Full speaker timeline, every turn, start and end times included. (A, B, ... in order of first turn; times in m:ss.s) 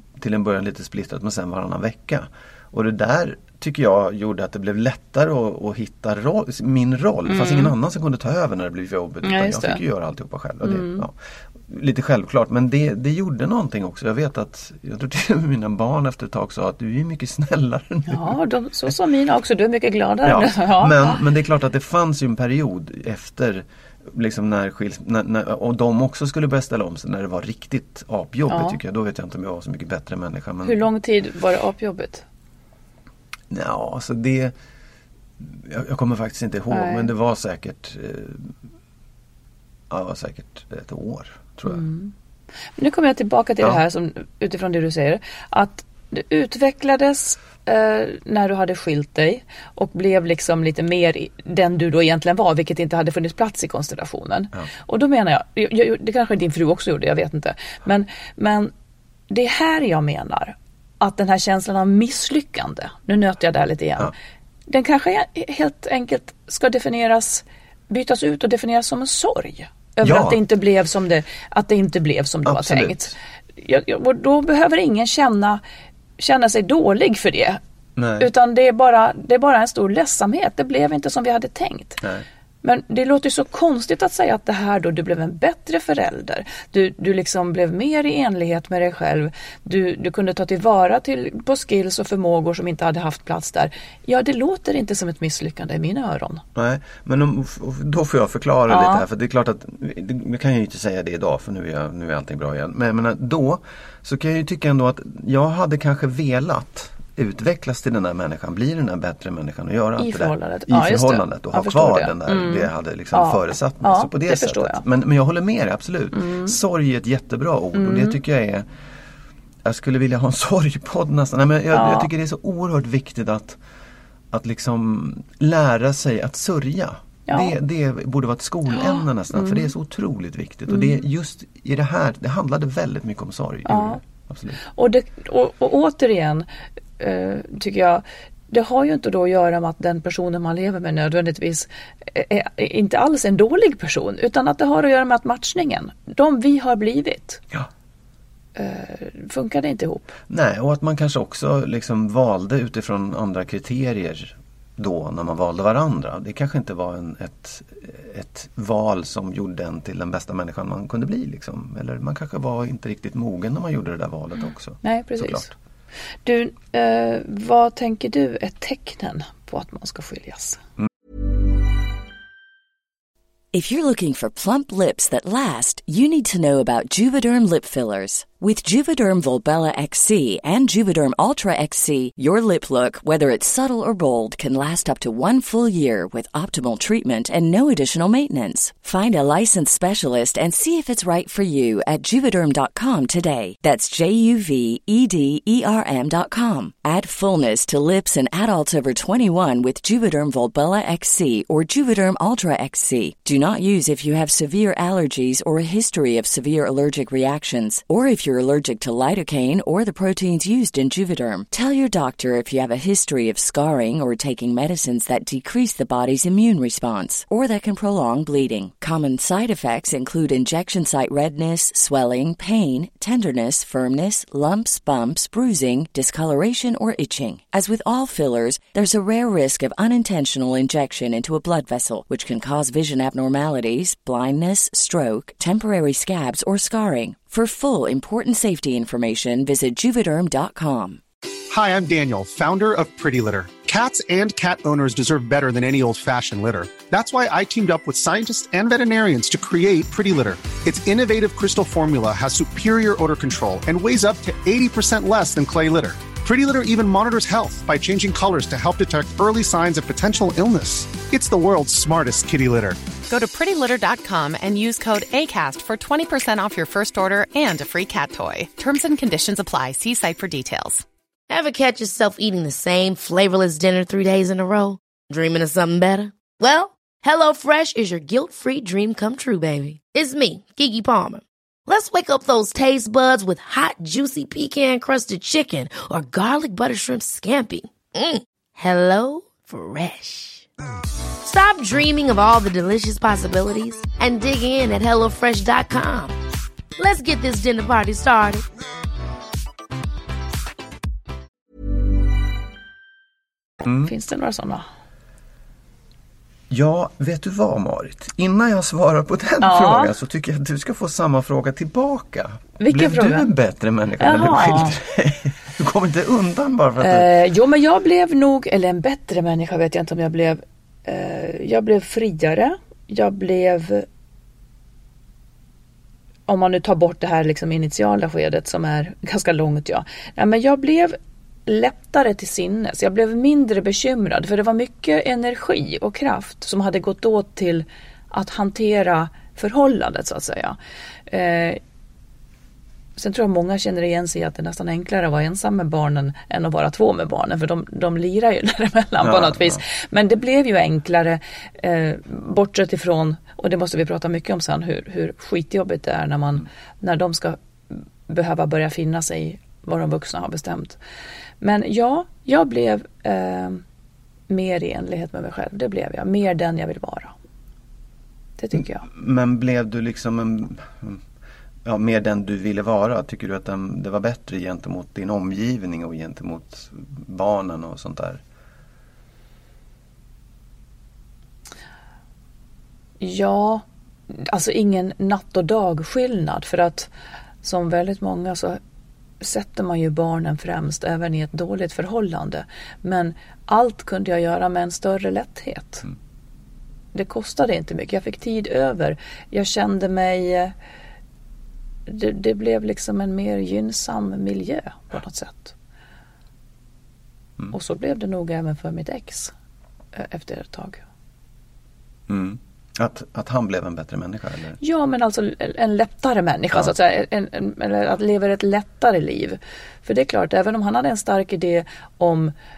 0:00.2-0:18.4 A
0:07.3-0:07.7 B
0:09.2-0:09.8 B
0:10.6-0:11.0 B
0:18.1-0:21.2 B
0:20.2-0:30.9 A
0:28.5-0:28.8 B
0:30.6-0:32.2 B
0:33.5-0:34.5 A
0:35.4-0:38.6 A
0:36.7-0:37.1 B
0:39.9-0:41.8 A
0:41.7-0:42.1 B
0:42.8-0:58.7 B
0:59.3-1:04.1 B
1:04.7-1:15.6 B
1:10.0-1:10.4 A
1:12.4-1:13.1 A
1:16.2-1:17.6 B
1:18.0-1:18.3 A
1:18.2-1:22.0 B
1:22.6-1:36.4 B
1:36.6-1:58.7 A
1:38.7-1:39.1 B
1:50.0-1:54.8 B
1:56.1-1:56.6 B
1:57.8-1:58.2 B
1:59.6-2:03.6 A
2:01.7-2:02.1 B
2:04.3-2:14.6 A
2:07.3-2:07.6 B
2:08.7-2:09.7 B
2:10.7-2:11.0 B
2:13.7-2:14.0 B
2:14.6-2:16.5 B
2:17.0-2:27.4 B
2:28.6-2:30.2 B
2:30.3-2:45.5 A
2:44.8-2:45.5 B
2:46.2-2:50.6 B
2:53.5-4:01.0 C
4:01.5-4:22.8 D
4:23.1-4:30.8 E
4:31.3-4:50.5 F
4:51.2-4:56.2 F
4:56.8-4:58.4 F
5:03.6-5:03.9 A
5:03.8-5:04.6 B
5:06.5-5:17.1 A
5:09.4-5:09.9 B
5:12.6-5:13.3 B
5:14.0-5:14.8 B
5:16.8-5:23.9 B
5:26.3-5:40.6 B
5:41.1-5:41.6 B
5:43.0-6:00.8 B
5:49.0-5:49.6 A
6:01.4-6:03.6 B
6:04.3-6:07.1 B
6:08.4-6:08.8 B
6:08.5-6:11.0 A
6:11.6-6:18.2 A
6:23.0-6:26.9 B
6:27.4-6:28.6 B
6:29.2-6:35.9 B
6:36.9-6:40.5 B
6:41.9-6:45.6 B
6:47.5-6:49.3 B
6:49.9-6:50.8 B
6:52.1-6:54.6 A
6:54.6-7:02.3 B